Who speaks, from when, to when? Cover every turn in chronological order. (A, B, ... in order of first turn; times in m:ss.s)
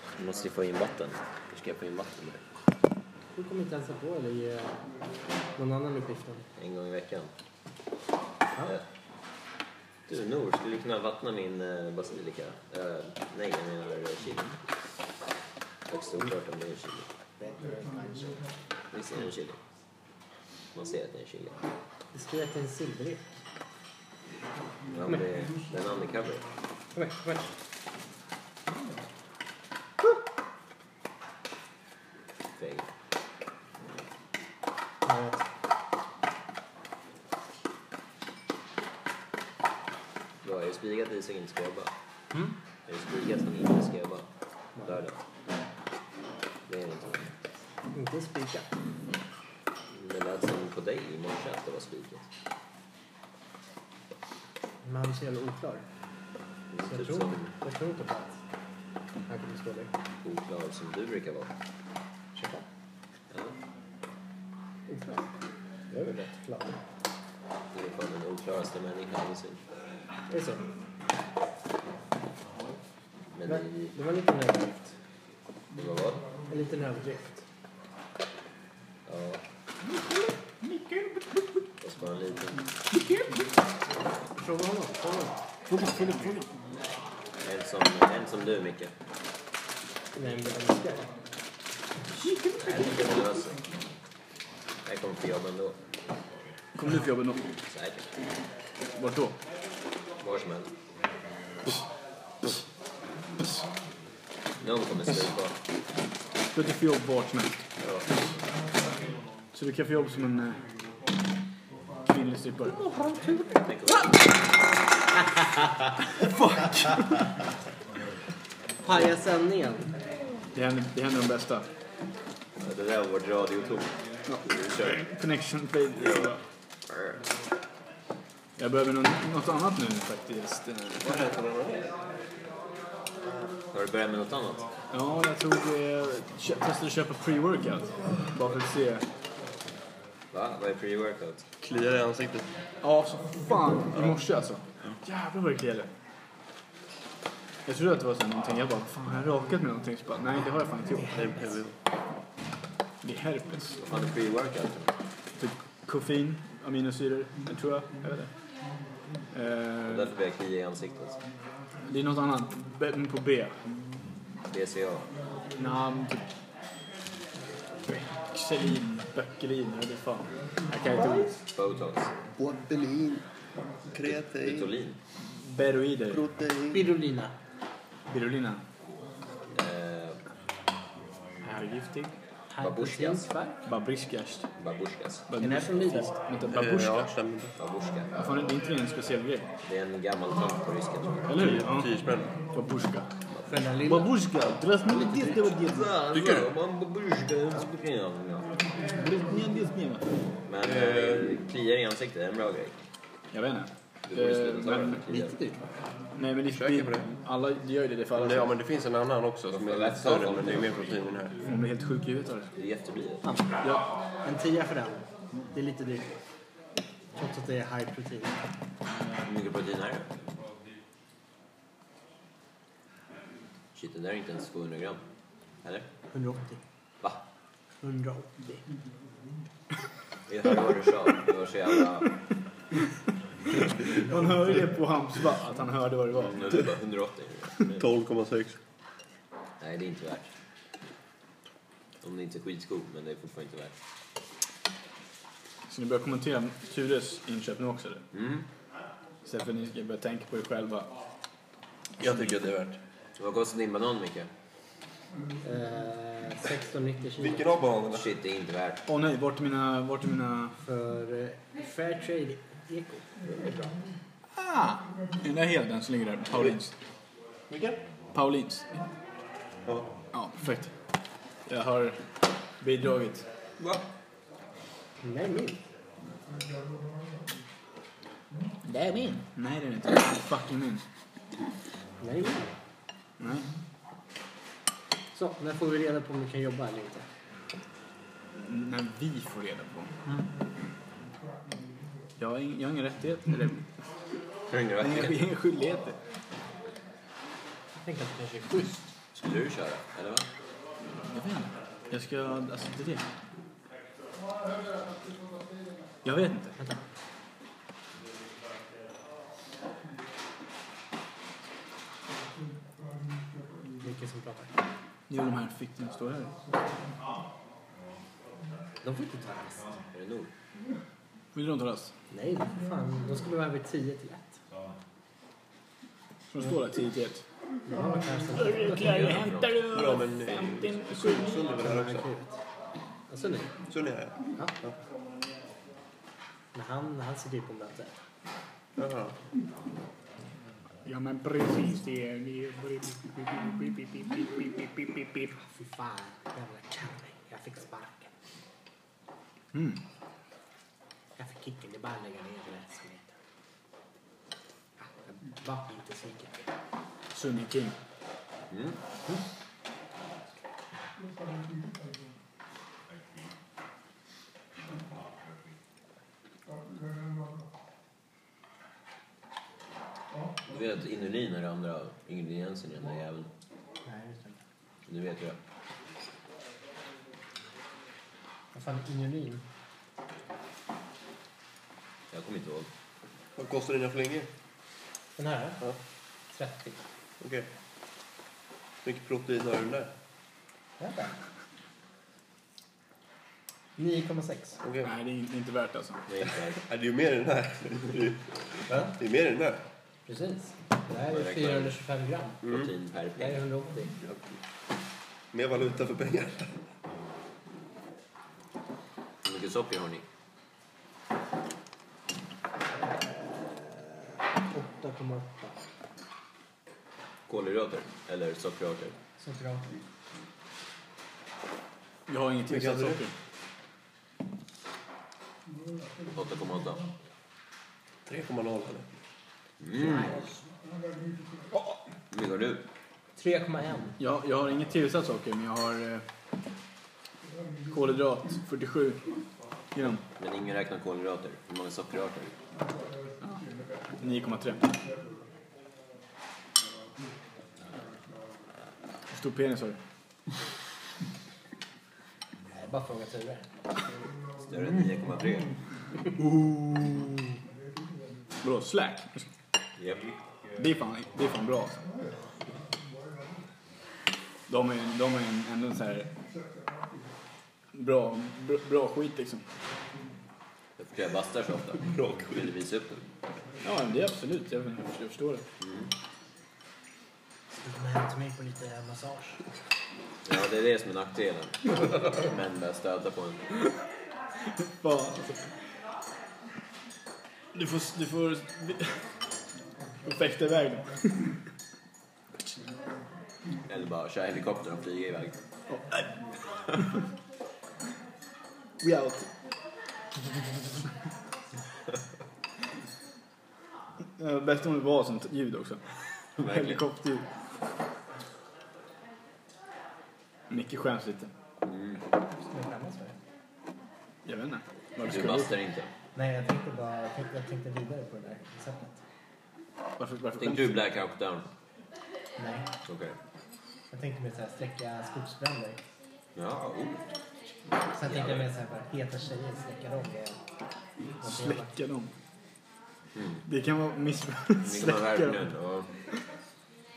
0:00.2-0:02.4 A
0:03.3-0:04.8 B
0:05.6-0:06.4 B
0:06.6-0:07.3 A
0:10.1-0:14.6 A
0:15.9-0:17.1 A
0:17.4-0:18.6 B
0:18.9-0:19.6 A
0:20.7-0:21.6 A
0:22.1-0:23.4 B
0:24.9-0:26.4 A
0:26.9-0:27.5 B
0:32.6-0:32.9 A
0:35.0-0:35.4 B
0:40.4-0:41.9 A
0:42.9-0:44.3 A
0:44.8-0:45.0 B
0:44.8-0:45.2 A
0:46.7-0:47.3 A
0:47.9-0:48.7 B
0:49.9-0:52.3 A
0:54.8-0:55.8 B
0:56.7-0:57.5 A
0:56.8-0:58.4 B
0:59.3-0:59.9 B
1:00.2-1:01.5 A
1:02.3-1:02.6 B
1:03.3-1:03.6 A
1:04.9-1:05.3 B
1:05.9-1:06.8 B
1:07.7-1:09.6 A
1:10.3-1:10.7 B
1:13.4-1:13.9 A
1:13.4-1:15.0 B
1:15.7-1:16.3 A
1:16.5-1:17.4 B
1:19.0-1:19.4 A
1:19.8-1:21.4 C
1:21.8-1:22.7 A
1:24.4-1:25.5 B
1:25.7-1:26.5 C
1:27.4-1:28.9 A
1:30.1-1:31.2 B
1:32.2-1:32.8 C
1:32.5-1:33.6 A
1:34.8-1:35.8 A
1:36.7-1:37.4 C
1:37.7-1:38.1 A
1:39.0-1:39.4 C
1:40.2-1:40.7 A
1:44.6-1:45.6 A
1:46.5-1:47.6 C
1:47.8-1:48.2 A
1:49.5-1:50.6 C
1:52.0-1:52.8 C
1:52.7-1:53.6 B
1:53.6-1:54.5 A
1:56.3-1:57.1 C
1:58.8-1:59.9 B
2:00.5-2:01.7 C
2:02.6-2:05.1 A
2:04.2-2:06.4 C
2:06.0-2:07.2 A
2:08.6-2:11.3 C
2:11.0-2:11.9 D
2:13.7-2:14.7 A
2:14.9-2:19.1 C
2:20.3-2:21.5 A
2:21.6-2:22.5 D
2:22.8-2:25.9 C
2:27.6-2:31.4 C
2:31.1-2:31.8 D
2:33.0-2:33.8 C
2:33.8-2:34.9 A
2:35.4-2:38.3 C
2:39.3-2:40.1 C
2:39.8-2:41.2 A
2:41.8-2:43.6 C
2:44.5-2:45.1 A
2:45.6-2:46.2 C
2:47.8-2:51.4 C
2:51.4-2:52.1 A
2:52.4-2:53.2 D
2:53.9-2:54.7 D
2:54.0-2:55.0 A
2:55.2-2:56.2 C
2:56.1-2:56.9 D
2:56.7-2:57.4 B
2:58.1-2:58.6 C
2:59.5-3:00.2 A
3:01.4-3:02.1 C
3:02.5-3:03.7 B
3:02.6-3:03.3 A
3:03.6-3:04.5 C
3:04.6-3:05.3 A
3:05.3-3:07.1 C
3:05.4-3:06.2 B
3:06.5-3:07.5 D
3:07.6-3:08.2 A
3:08.2-3:09.5 C
3:09.6-3:11.4 A
3:11.2-3:13.1 C
3:11.3-3:12.4 D
3:13.4-3:14.1 B
3:13.8-3:16.5 C
3:14.8-3:18.5 A
3:18.9-3:20.1 C
3:20.4-3:22.7 A
3:20.6-3:21.4 D
3:23.3-3:25.4 C
3:24.0-3:25.4 A
3:25.3-3:25.6 B
3:26.2-3:28.5 C
3:26.4-3:27.1 D
3:28.1-3:31.4 D
3:29.5-3:31.0 A
3:31.4-3:32.5 C
3:32.5-3:33.2 A
3:33.2-3:33.6 B
3:34.2-3:36.1 B
3:37.1-3:38.4 B
3:39.2-3:40.1 A
3:43.7-3:45.0 A
3:46.1-3:46.6 B
3:47.8-3:48.6 B
3:50.3-3:52.2 A
3:54.0-3:56.7 C
3:56.1-3:57.9 A
3:57.7-3:58.6 D
3:59.6-4:00.3 A
4:02.0-4:03.7 A
4:05.7-4:08.0 C
4:08.1-4:08.4 A
4:09.2-4:10.9 C
4:12.0-4:12.8 D
4:13.2-4:14.3 A
4:15.4-4:17.4 B
4:17.2-4:18.1 D
4:17.9-4:18.8 A
4:18.8-4:20.6 C
4:20.6-4:23.8 B
4:24.3-4:26.7 C
4:27.5-4:27.8 D
4:28.1-4:28.9 C
4:30.1-4:30.7 C
4:31.4-4:32.0 C
4:32.6-4:33.2 C
4:33.6-4:33.8 D
4:35.0-4:35.6 B
4:38.6-4:40.8 C
4:42.0-4:42.5 B
4:43.2-4:43.5 C
4:45.1-4:47.1 B
4:48.4-4:49.9 C
4:52.2-4:53.7 C
4:54.5-4:55.2 A
4:54.8-4:56.0 C
4:57.8-4:58.9 B
4:59.1-5:00.3 A
5:01.0-5:03.1 C
5:06.0-5:06.6 C
5:06.6-5:06.8 B
5:13.8-5:14.6 B
5:15.1-5:16.4 C
5:18.8-5:19.7 B
5:19.9-5:20.3 A
5:21.3-5:21.9 C
5:22.1-5:24.4 B
5:26.3-5:27.2 C
5:27.7-5:29.2 B
5:28.3-5:31.5 C
5:28.6-5:29.8 A
5:29.7-5:32.1 D
5:31.4-5:32.4 B
5:33.1-5:33.5 B
5:33.7-5:34.7 D
5:36.5-5:38.0 B
5:38.8-5:39.2 D
5:40.8-5:45.3 C
5:45.3-5:48.1 B
5:49.5-5:49.8 C
5:51.2-5:53.2 B
5:54.8-5:56.5 B
5:57.1-5:57.8 C
5:58.5-5:58.8 A
6:10.4-6:13.3 A
6:13.8-6:14.4 B
6:14.9-6:15.4 A
6:18.5-6:19.4 B
6:22.1-6:22.7 A
6:23.4-6:24.3 D
6:25.2-6:25.7 B
6:26.3-6:26.8 B
6:27.2-6:27.5 D
6:28.8-6:29.9 D
6:30.8-6:31.2 B
6:33.8-6:34.6 B
6:34.6-6:34.9 D
6:34.8-6:36.1 C
6:36.1-6:36.6 A
6:36.6-6:39.6 D
6:38.7-6:38.9 B
6:40.0-6:42.5 B
6:41.0-6:41.7 A
6:42.4-6:43.4 A
6:43.2-6:43.9 B
6:44.0-6:44.4 D
6:45.3-6:46.6 D
6:49.2-6:50.0 A
6:52.8-6:55.6 B
6:57.3-6:59.0 A
6:59.2-6:59.7 B
7:02.1-7:03.1 C
7:02.5-7:03.0 D
7:06.1-7:06.9 A
7:08.0-7:08.9 D
7:09.6-7:10.2 A
7:09.8-7:10.3 B
7:12.1-7:12.6 A
7:13.2-7:14.0 B
7:14.0-7:16.0 C
7:17.7-7:19.0 C
7:19.7-7:20.0 C
7:20.2-7:22.3 A
7:24.0-7:24.7 C
7:29.1-7:29.8 C
7:32.5-7:33.5 B
7:34.4-7:35.5 A
7:36.2-7:37.2 C
7:38.4-7:39.3 C
7:39.8-7:40.1 A
7:40.5-7:41.8 C
7:44.5-7:46.1 C
7:47.7-7:49.4 C
7:50.8-7:53.0 A
7:53.6-7:55.4 C
7:55.6-7:55.9 A
7:57.5-7:59.4 B
8:00.2-8:03.4 A
8:04.6-8:05.4 C
8:07.5-8:09.0 C
8:10.0-8:11.4 C
8:12.3-8:12.6 C
8:13.7-8:15.4 A
8:15.7-8:16.2 C
8:18.8-8:19.3 C
8:24.2-8:25.8 C
8:26.4-8:27.2 C
8:26.4-8:26.8 A
8:30.5-8:31.3 C
8:31.6-8:32.0 A
8:32.3-8:33.2 B
8:34.2-8:35.6 C
8:35.0-8:35.9 A
8:36.1-8:39.0 B
8:40.0-8:40.8 C
8:40.4-8:41.5 A
8:42.4-8:42.7 B
8:42.8-8:43.2 A
8:43.9-8:45.8 B
8:46.3-8:47.0 A
8:47.9-8:50.4 B
8:47.9-8:48.5 A
8:51.2-8:51.7 B
8:51.2-8:52.1 C
8:53.1-8:53.4 A
8:53.4-8:55.5 C
8:54.6-8:55.9 A